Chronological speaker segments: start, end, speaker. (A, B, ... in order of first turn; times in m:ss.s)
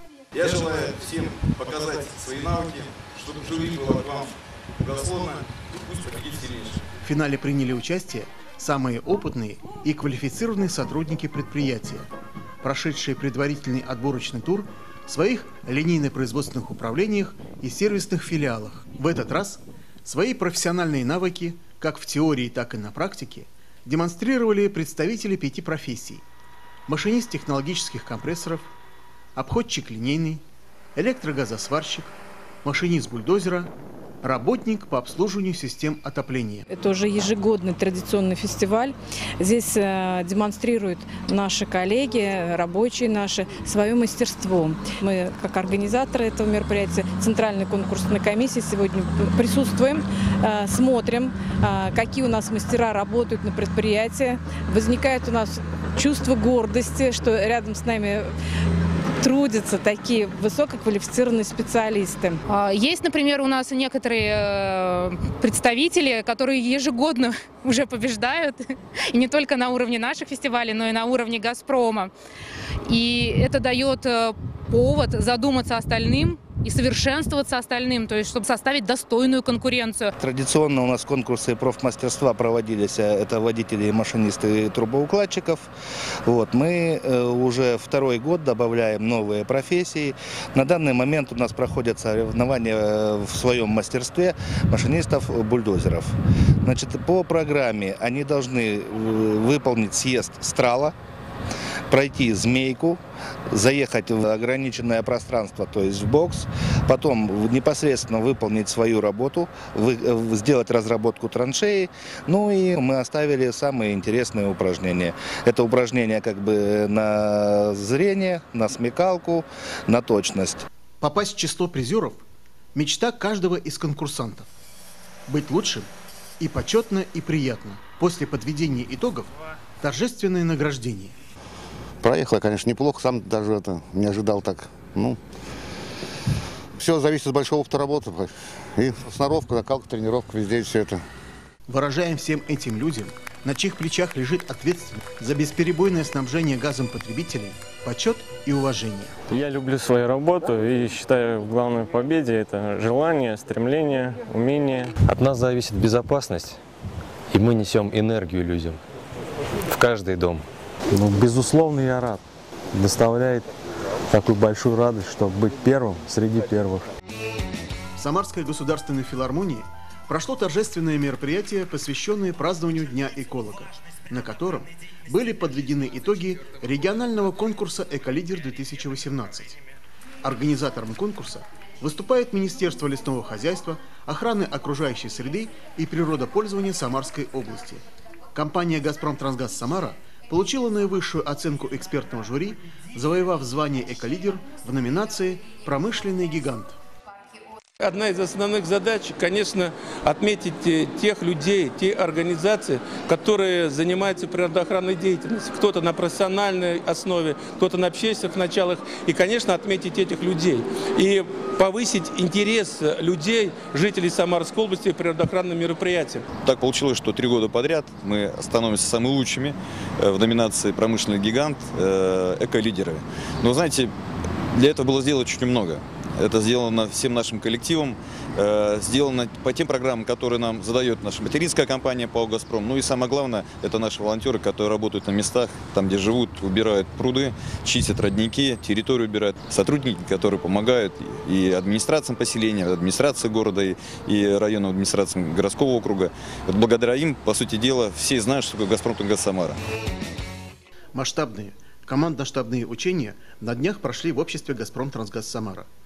0:00.3-0:06.8 A
0:07.0-0:12.1 B
0:12.6-0:26.2 B
0:26.9-0:28.7 B
0:29.4-0:30.4 B
0:30.9-0:36.6 B
0:36.7-0:58.3 C
0:59.2-1:02.4 C
1:02.5-1:12.1 D
1:12.8-1:20.1 D
1:20.2-1:25.7 E
1:26.2-1:40.9 E
1:41.9-2:00.6 E
2:01.0-2:04.5 B
2:05.3-2:11.1 B
2:12.0-2:15.2 F
2:16.7-2:21.0 F
2:21.7-2:29.2 B
2:29.3-2:35.0 G
2:35.0-2:36.6 H
2:37.3-2:38.8 H
2:39.6-2:40.4 H
2:40.9-2:42.2 I
2:42.8-2:43.2 I
2:42.9-2:43.4 H
2:44.1-2:45.6 H
2:44.2-2:46.8 I
2:48.0-2:59.6 B
3:00.2-3:07.8 B
3:08.3-3:16.8 B
3:17.8-3:36.2 J
3:36.4-3:43.9 A
3:44.5-4:09.6 A
4:10.9-4:15.7 B